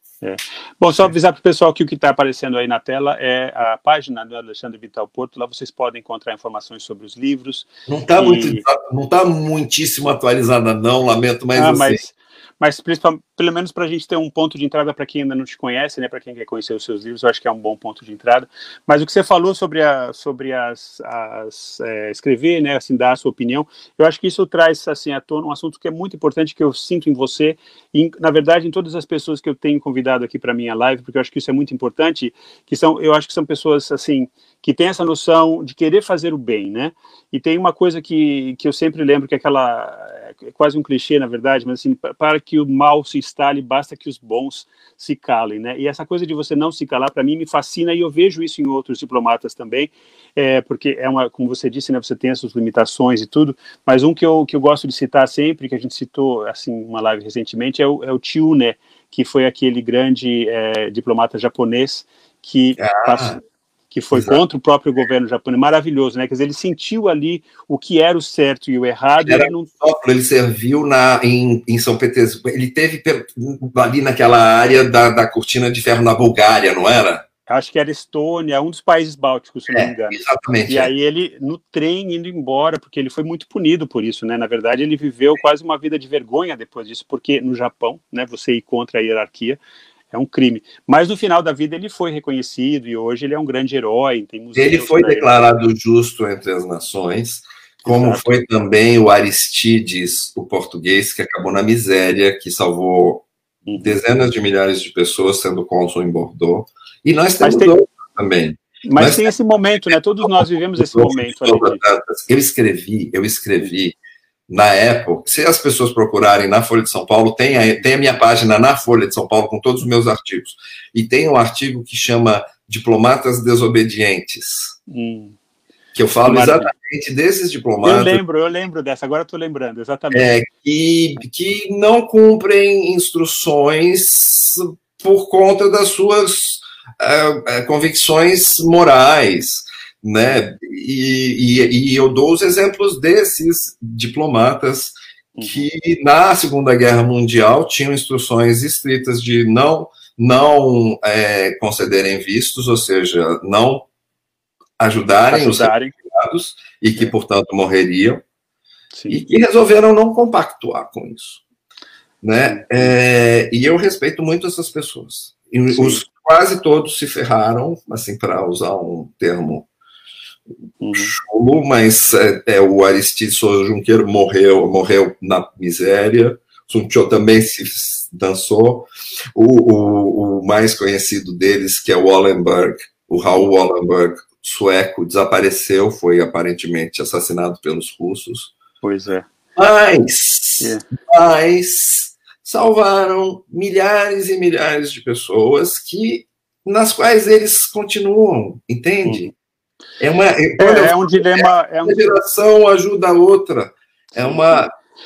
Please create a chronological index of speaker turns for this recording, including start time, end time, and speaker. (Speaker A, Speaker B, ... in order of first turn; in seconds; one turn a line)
Speaker A: 0.2-8.6
Speaker B: 7.9-12.0
Speaker A: 11.6-63.4
Speaker B: 62.8-63.4
Speaker A: 63.9-69.7
Speaker B: 64.1-64.4
Speaker B: 69.2-77.2
Speaker A: 77.5-89.6
Speaker B: 79.7-80.9
Speaker A: 90.1-95.4
Speaker B: 94.6-109.3
Speaker A: 97.8-98.3
Speaker A: 103.7-104.0
Speaker A: 107.4-107.8
Speaker A: 108.8-111.8
Speaker B: 110.2-114.0
Speaker B: 114.5-124.8
Speaker A: 124.9-125.4
Speaker B: 126.0-128.2
Speaker A: 126.3-126.7
Speaker A: 127.8-130.3
Speaker B: 130.1-153.9
Speaker A: 145.4-145.7
Speaker B: 154.8-158.2
Speaker A: 155.3-155.9
Speaker A: 158.9-159.2
Speaker B: 159.1-161.4
Speaker B: 162.2-169.7
Speaker A: 162.5-162.9
Speaker A: 165.7-166.0
Speaker A: 170.8-171.2
Speaker B: 170.9-188.5
Speaker A: 188.8-189.3
Speaker B: 189.6-199.3
Speaker A: 190.6-190.8
Speaker A: 199.1-199.3
Speaker B: 200.0-204.7
Speaker A: 200.6-202.2
Speaker A: 204.1-204.7